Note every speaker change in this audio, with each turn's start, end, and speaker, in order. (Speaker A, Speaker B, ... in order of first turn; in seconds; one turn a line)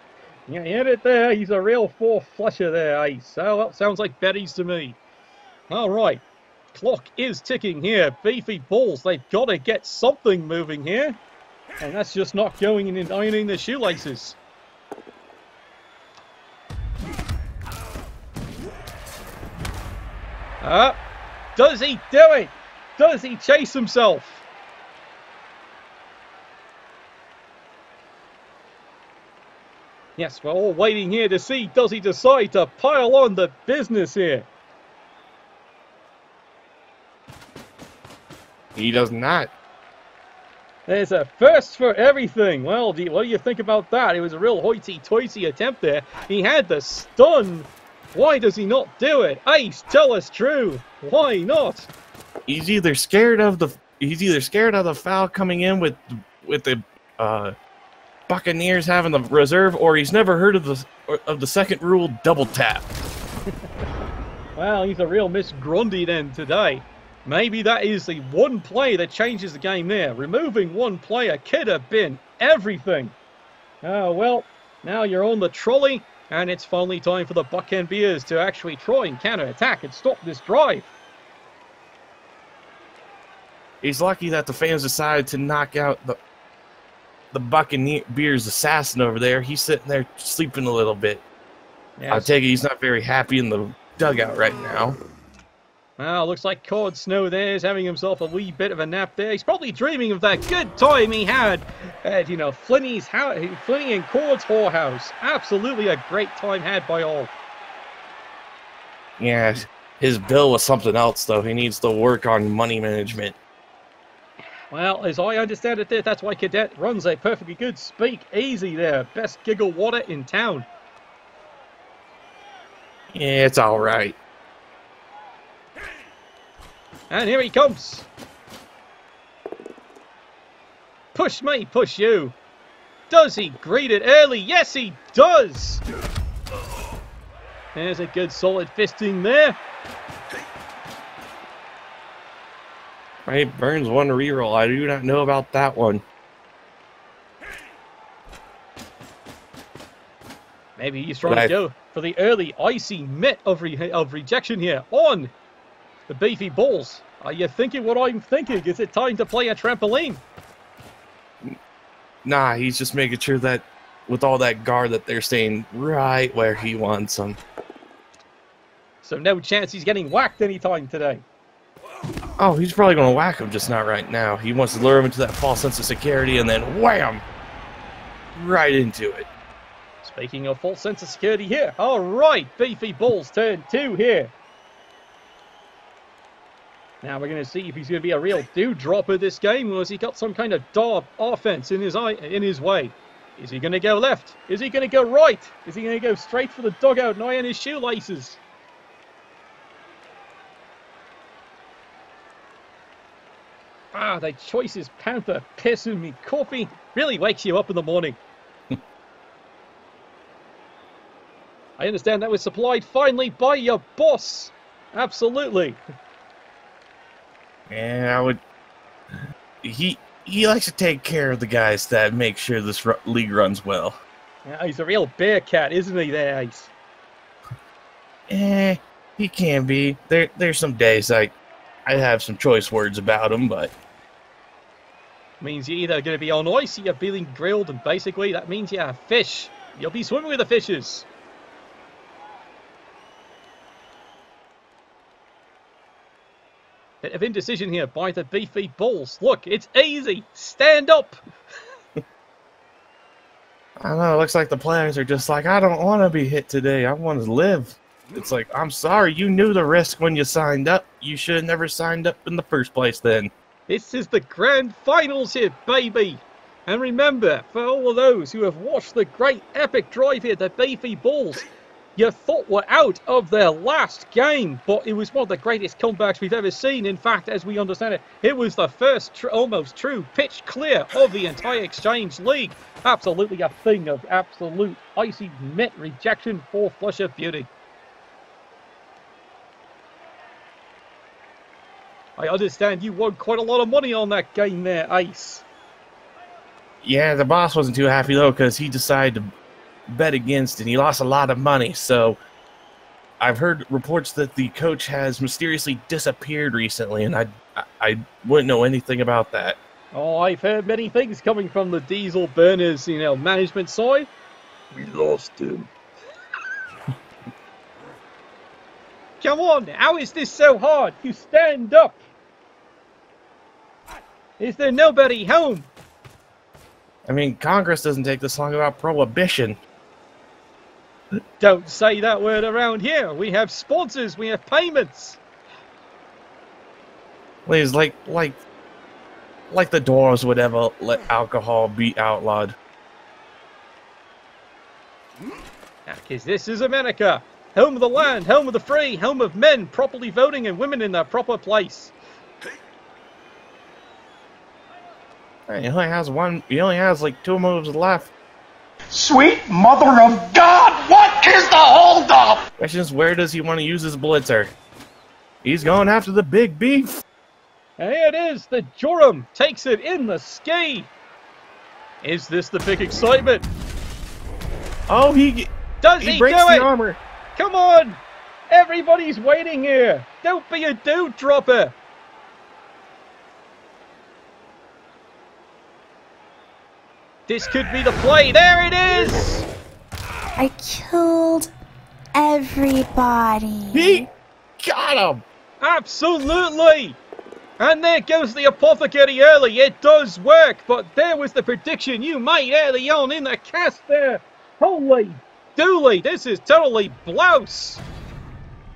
Speaker A: 0.5-5.0
Speaker A: 5.7-11.2
Speaker A: 11.8-14.4
Speaker A: 20.6-21.0
Speaker A: 21.6-24.4
Speaker A: 30.2-34.5
Speaker B: 38.7-39.5
Speaker A: 40.9-51.9
Speaker B: 52.5-57.5
Speaker B: 58.3-62.9
Speaker A: 64.5-73.1
Speaker A: 73.8-80.9
Speaker B: 83.8-86.2
Speaker B: 87.3-91.2
Speaker A: 92.0-92.3
Speaker B: 92.1-95.0
Speaker A: 96.0-107.3
Speaker B: 109.2-113.3
Speaker A: 114.7-120.7
Speaker B: 123.1-124.2
Speaker A: 127.1-128.1
Speaker A: 131.1-132.3
Speaker A: 133.1-135.8
Speaker A: 137.7-139.6
Speaker B: 143.2-146.0
Speaker A: 150.8-155.3
Speaker B: 151.2-151.5
Speaker A: 156.1-160.2
Speaker B: 162.2-167.4
Speaker A: 169.0-171.2
Speaker B: 172.4-177.2
Speaker B: 178.3-179.3
Speaker A: 180.0-184.3
Speaker A: 187.0-198.4
Speaker A: 203.9-208.2
Speaker A: 211.8-215.8
Speaker B: 217.7-218.4
Speaker B: 219.6-224.0
Speaker A: 224.4-226.7
Speaker B: 228.3-233.7
Speaker A: 235.4-241.1
Speaker A: 247.0-251.2
Speaker B: 253.8-263.3
Speaker A: 263.7-287.5
Speaker A: 292.2-295.4
Speaker B: 296.8-299.3
Speaker B: 299.9-302.2
Speaker B: 303.2-309.6
Speaker A: 309.9-314.1
Speaker A: 314.7-315.7
Speaker A: 319.2-322.0
Speaker A: 324.4-325.7
Speaker B: 327.1-329.6
Speaker A: 331.4-335.2
Speaker B: 337.4-338.4
Speaker B: 339.5-342.6
Speaker A: 345.9-351.9
Speaker B: 355.5-358.1
Speaker C: 358.9-362.4
Speaker B: 362.6-364.5
Speaker B: 365.4-366.9
Speaker A: 367.8-370.9
Speaker A: 372.0-373.5
Speaker B: 374.9-377.0
Speaker A: 375.8-376.7
Speaker A: 377.4-381.7
Speaker A: 387.3-389.4
Speaker D: 390.4-391.5
Speaker D: 392.1-394.1
Speaker B: 393.7-394.1
Speaker B: 394.6-395.2
Speaker A: 395.6-397.0
Speaker A: 397.6-407.8